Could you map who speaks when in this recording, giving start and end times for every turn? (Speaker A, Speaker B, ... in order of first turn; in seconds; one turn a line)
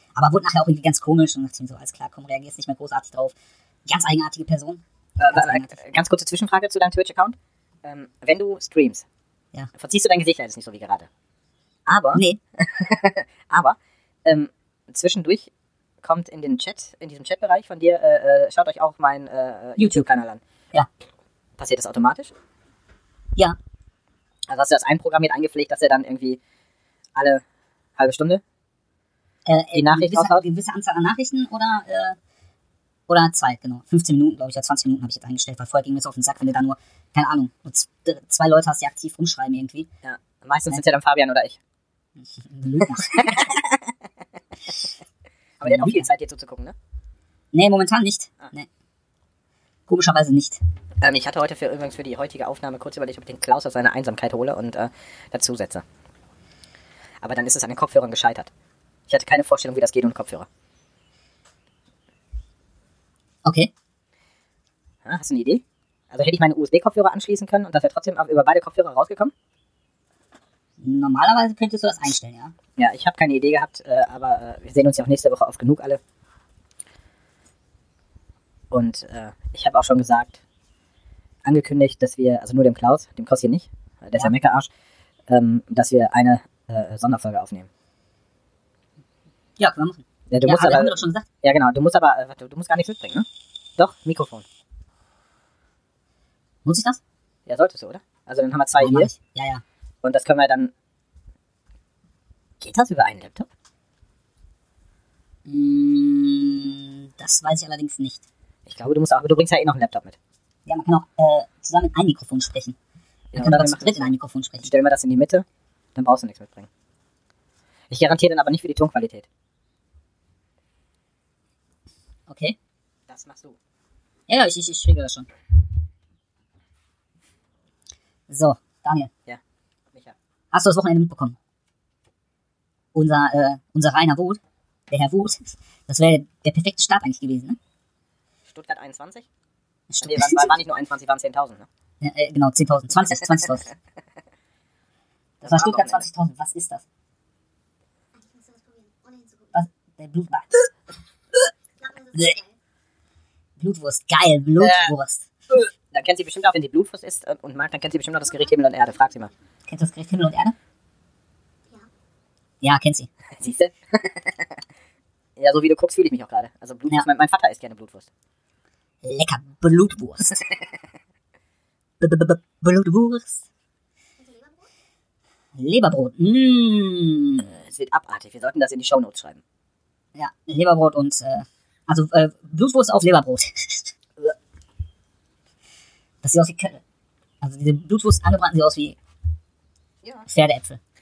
Speaker A: 0.1-3.3
Speaker A: 3.9-5.8
Speaker B: 5.2-9.0
Speaker B: 9.7-11.1
Speaker B: 11.8-15.5
Speaker A: 12.1-12.4
Speaker B: 16.0-20.4
Speaker A: 19.8-20.0
Speaker B: 21.6-22.3
Speaker B: 24.5-26.4
Speaker B: 27.1-27.4
Speaker B: 28.0-28.4
Speaker A: 29.4-32.2
Speaker B: 29.7-30.4
Speaker A: 33.1-39.9
Speaker B: 40.0-41.6
Speaker A: 42.2-43.5
Speaker B: 43.1-43.8
Speaker B: 45.6-46.7
Speaker A: 45.6-46.1
Speaker A: 47.5-48.7
Speaker A: 49.9-50.6
Speaker B: 51.0-55.8
Speaker B: 57.2-58.5
Speaker B: 59.1-60.5
Speaker A: 63.4-63.7
Speaker B: 65.0-69.3
Speaker A: 70.8-72.5
Speaker B: 72.8-76.0
Speaker B: 78.7-80.4
Speaker B: 81.4-84.7
Speaker B: 85.3-87.7
Speaker A: 89.6-91.2
Speaker B: 90.3-94.4
Speaker A: 96.6-97.0
Speaker B: 97.5-99.1
Speaker A: 98.8-99.6
Speaker B: 100.0-100.7
Speaker B: 102.6-103.5
Speaker A: 105.5-108.2
Speaker B: 108.7-110.2
Speaker A: 110.7-112.8
Speaker B: 113.3-116.7
Speaker A: 113.3-114.7
Speaker B: 117.9-119.3
Speaker A: 122.3-122.5
Speaker B: 123.1-123.6
Speaker A: 124.3-125.3
Speaker A: 128.3-129.1
Speaker A: 130.5-131.4
Speaker A: 132.9-137.6
Speaker B: 138.4-139.3
Speaker A: 139.9-140.6
Speaker B: 140.0-141.7
Speaker A: 142.0-143.7
Speaker A: 145.4-146.8
Speaker B: 145.4-146.1
Speaker C: 148.1-149.6
Speaker A: 149.5-150.6
Speaker C: 151.8-152.5
Speaker A: 153.6-155.2
Speaker B: 154.6-154.9
Speaker B: 155.5-159.3
Speaker C: 158.2-159.3
Speaker A: 159.7-160.5
Speaker A: 162.6-163.1
Speaker B: 163.4-164.5
Speaker B: 165.4-168.1
Speaker A: 169.0-170.4
Speaker A: 172.0-173.4
Speaker C: 174.2-174.7
Speaker A: 175.6-177.5
Speaker B: 177.4-179.4
Speaker A: 180.1-183.9
Speaker A: 186.2-186.8
Speaker A: 187.4-189.0
Speaker B: 190.0-190.3
Speaker A: 190.3-190.8